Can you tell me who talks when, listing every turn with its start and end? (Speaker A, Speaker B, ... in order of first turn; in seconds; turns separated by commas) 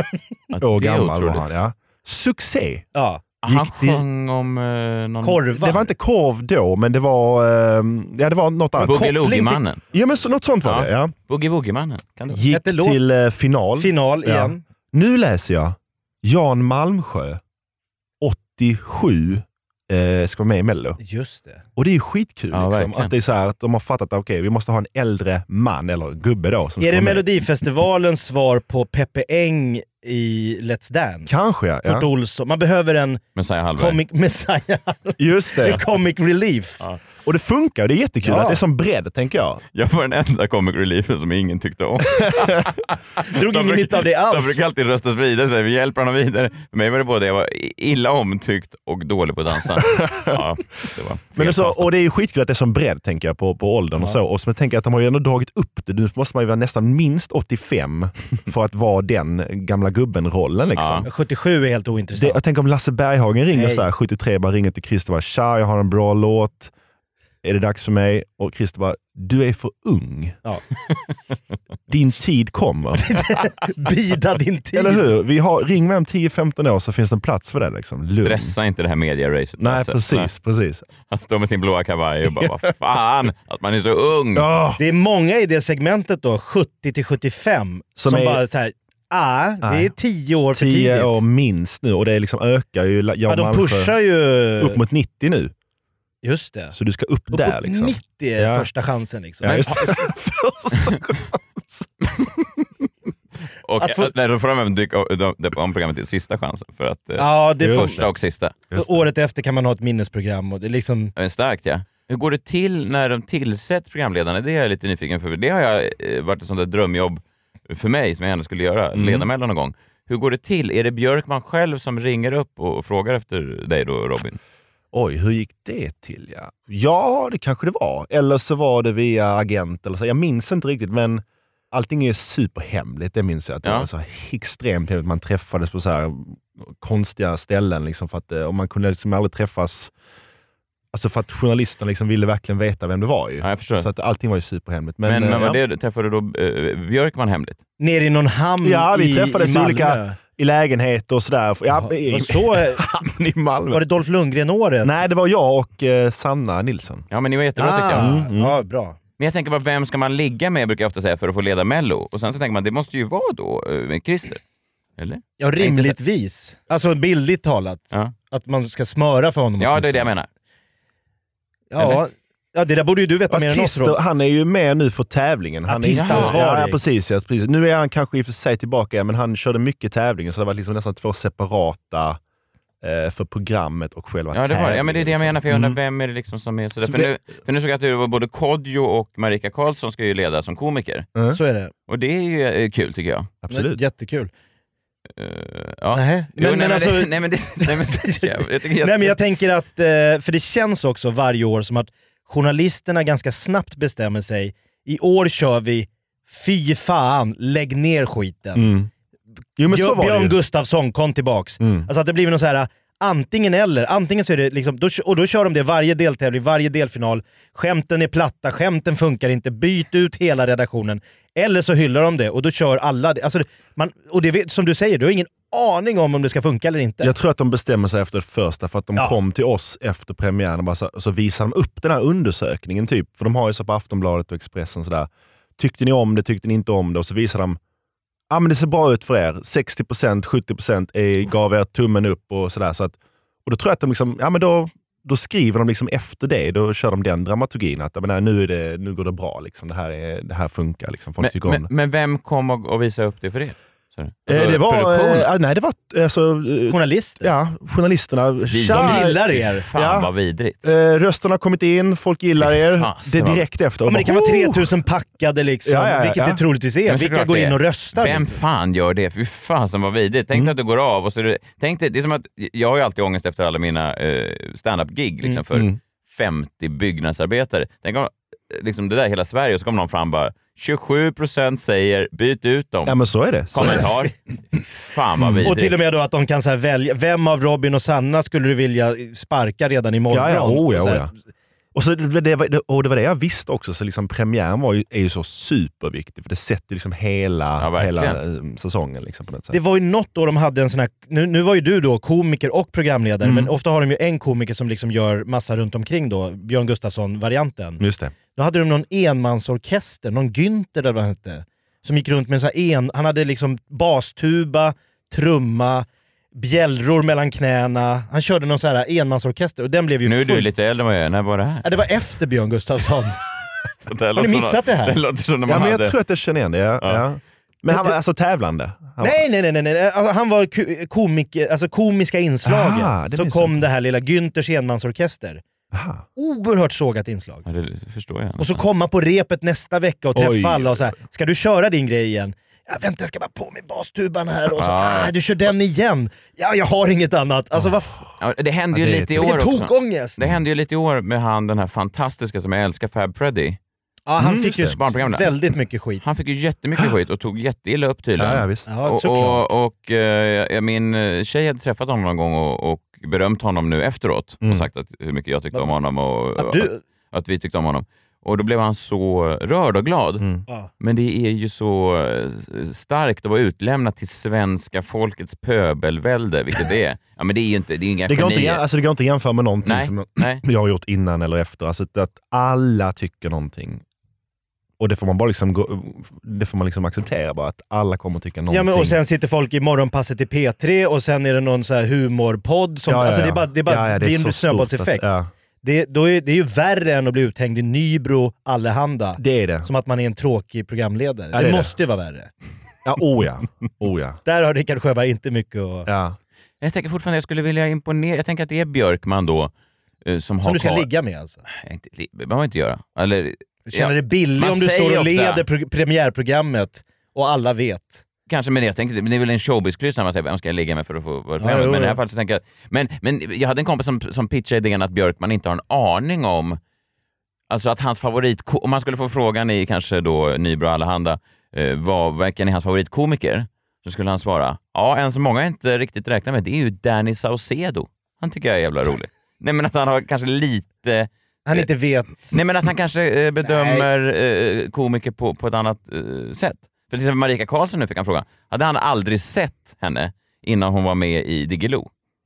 Speaker A: 0.5-1.5, Speaker B: 0.6-2.9, Speaker C: 3.0-3.2, Speaker A: 3.4-5.7, Speaker B: 3.5-4.0, Speaker C: 5.2-5.8, Speaker B: 5.6-9.2, Speaker C: 8.8-9.6, Speaker A: 8.8-9.8, Speaker B: 9.9-11.1, Speaker A: 10.6-12.4, Speaker B: 12.3-17.4, Speaker C: 12.5-13.0, Speaker C: 13.8-14.6, Speaker B: 18.2-21.0, Speaker C: 21.0-21.6, Speaker B: 21.8-27.3, Speaker A: 22.5-23.1, Speaker C: 26.8-33.2, Speaker B: 31.3-32.1, Speaker A: 33.4-34.0, Speaker C: 33.8-36.8, Speaker B: 35.2-35.8, Speaker B: 37.2-39.6, Speaker C: 38.2-38.6, Speaker A: 39.7-51.9, Speaker C: 43.3-44.6, Speaker B: 50.0-50.4, Speaker B: 51.4-61.1, Speaker A: 60.8-61.0, Speaker C: 61.0-62.4, Speaker B: 62.2-66.7, Speaker C: 63.5-63.9, Speaker B: 67.4-70.4, Speaker B: 71.9-73.2, Speaker C: 73.0-75.0, Speaker B: 74.7-78.5, Speaker A: 78.2-80.3, Speaker B: 79.6-80.8, Speaker A: 81.1-84.5, Speaker B: 84.3-84.8, Speaker C: 84.8-91.2, Speaker B: 88.0-88.4, Speaker B: 89.6-89.9, Speaker B: 90.5-94.0, Speaker C: 93.3-94.8, Speaker B: 94.6-95.5, Speaker C: 96.2-96.8, Speaker B: 96.7-98.7, Speaker C: 97.3-99.9, Speaker B: 99.4-101.9, Speaker A: 99.5-100.0, Speaker A: 103.7-108.5, Speaker C: 103.8-104.1, Speaker C: 107.2-108.0, Speaker B: 107.6-108.1, Speaker B: 108.7-109.1, Speaker C: 108.7-111.1, Speaker A: 111.2-124.4, Speaker B: 118.9-119.3, Speaker B: 124.9-139.9, Speaker B: 140.9-145.6, Speaker A: 143.4-143.9, Speaker A: 145.1-147.6, Speaker C: 147.8-150.2, Speaker B: 148.6-153.8, Speaker C: 151.7-152.8, Speaker C: 153.7-155.0, Speaker B: 154.8-157.1, Speaker A: 157.1-158.1, Speaker C: 157.6-159.0, Speaker B: 157.9-158.6, Speaker A: 159.2-164.4, Speaker A: 165.0-166.0, Speaker C: 165.4-170.1, Speaker A: 169.6-170.3, Speaker C: 171.7-174.0, Speaker B: 173.3-182.2, Speaker C: 175.7-176.8, Speaker A: 175.9-176.4, Speaker B: 182.8-185.8, Speaker A: 184.3-191.1, Speaker B: 186.8-187.1, Speaker C: 191.3-191.7, Speaker A: 191.9-193.3, Speaker B: 193.4-193.8, Speaker C: 193.5-194.3, Speaker A: 195.2-199.2, Speaker C: 195.9-208.8, Speaker B: 208.6-208.9, Speaker B: 209.6-210.4, Speaker C: 209.7-227.1, Speaker B: 211.6-211.9, Speaker B: 227.0-237.6, Speaker B: 238.3-251.7, Speaker A: 251.2-255.3, Speaker B: 254.3-259.2, Speaker C: 256.7-257.3, Speaker A: 258.5-260.6, Speaker C: 258.7-259.7, Speaker B: 259.8-260.1, Speaker B: 260.6-264.8, Speaker A: 262.4-263.4, Speaker C: 263.9-268.3, Speaker B: 265.6-266.4, Speaker A: 266.9-283.0, Speaker B: 275.5-275.8, Speaker B: 282.9-283.9, Speaker A: 283.5-285.7, Speaker B: 285.2-285.5, Speaker C: 285.4-291.1, Speaker B: 290.1-291.1, Speaker B: 291.7-299.6, Speaker A: 297.6-298.2, Speaker C: 299.5-307.8, Speaker B: 303.2-303.5, Speaker B: 307.8-308.1, Speaker C: 308.4-320.5, Speaker A: 320.1-321.8, Speaker C: 321.6-323.2, Speaker A: 323.9-326.0, Speaker C: 324.1-325.0, Speaker B: 325.5-329.2, Speaker C: 329.0-335.4, Speaker B: 332.4-333.6, Speaker B: 335.7-336.1, Speaker C: 336.2-337.4, Speaker A: 337.5-338.6, Speaker C: 338.4-348.1, Speaker B: 340.1-341.0, Speaker A: 344.6-345.1, Speaker A: 348.2-353.6, Speaker B: 348.7-349.3, Speaker C: 349.2-350.2, Speaker C: 354.1-356.0, Speaker B: 354.2-354.8, Speaker A: 354.7-355.3, Speaker A: 356.0-370.2, Speaker B: 358.2-358.8, Speaker C: 358.7-359.4, Speaker B: 364.4-364.7, Speaker C: 366.4-366.8, Speaker B: 370.2-370.4, Speaker A: 370.8-378.6, Speaker B: 378.1-383.8, Speaker A: 379.6-380.4, Speaker B: 384.8-389.0, Speaker C: 388.5-395.1, Speaker B: 392.9-395.3, Speaker C: 395.6-402.3, Speaker B: 399.2-399.7, Speaker B: 401.3-401.7, Speaker B: 402.9-404.2, Speaker C: 404.2-405.9, Speaker B: 405.9-406.2, Speaker A: 406.6-409.5, Speaker A: 410.1-410.9, Speaker C: 410.4-411.4, Speaker A: 411.5-415.4, Speaker C: 413.7-418.0, Speaker A: 418.3-426.6, Speaker C: 421.4-422.0, Speaker A: 427.5-441.7, Speaker C: 441.5-442.4, Speaker A: 442.3-451.9, Speaker C: 443.4-443.9